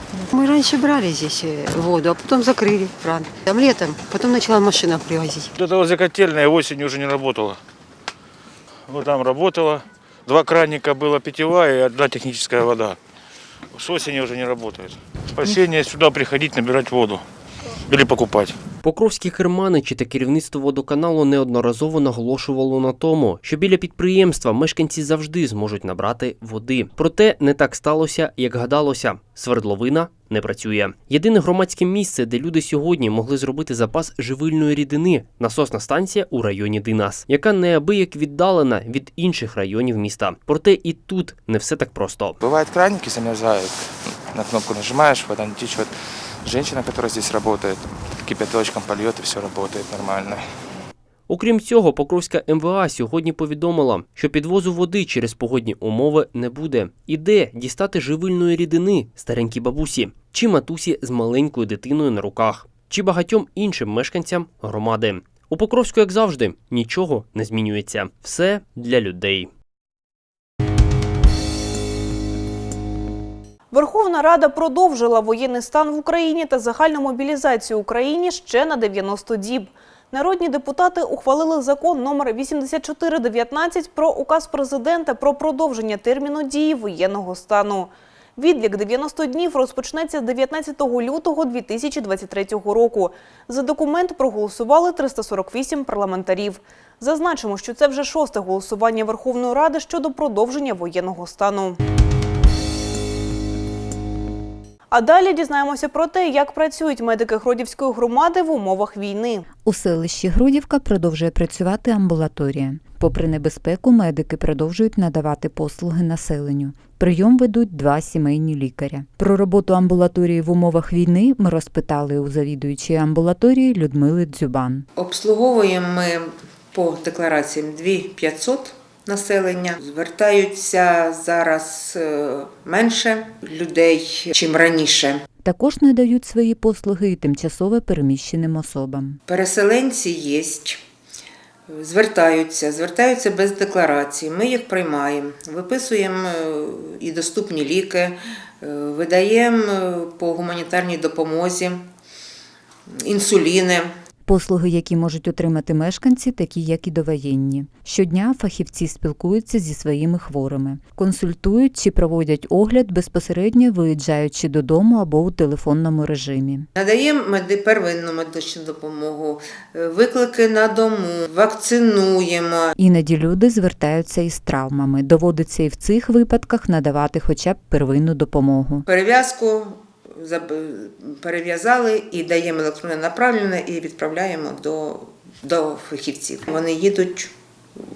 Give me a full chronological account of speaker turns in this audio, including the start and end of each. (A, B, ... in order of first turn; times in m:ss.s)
0:00.1-0:05.5 A
0:05.5-0:07.6 B
0:08.9-0:13.0 B
0:13.7-0:17.2 B
0:17.9-0:18.6 B
0:18.8-0:42.4 C
0:42.4-0:50.4 D
0:51.3-1:09.5 C
1:13.7-1:41.8 E
1:44.9-1:49.4 E
1:49.6-2:04.8 F
2:05.0-2:15.2 G
2:15.4-2:19.2 F
2:19.3-2:20.8 G
2:21.7-2:31.9 G
2:32.9-2:33.9 G
2:34.2-2:46.7 F
2:46.7-2:52.7 G
2:52.8-2:58.8 F
2:58.9-3:07.8 G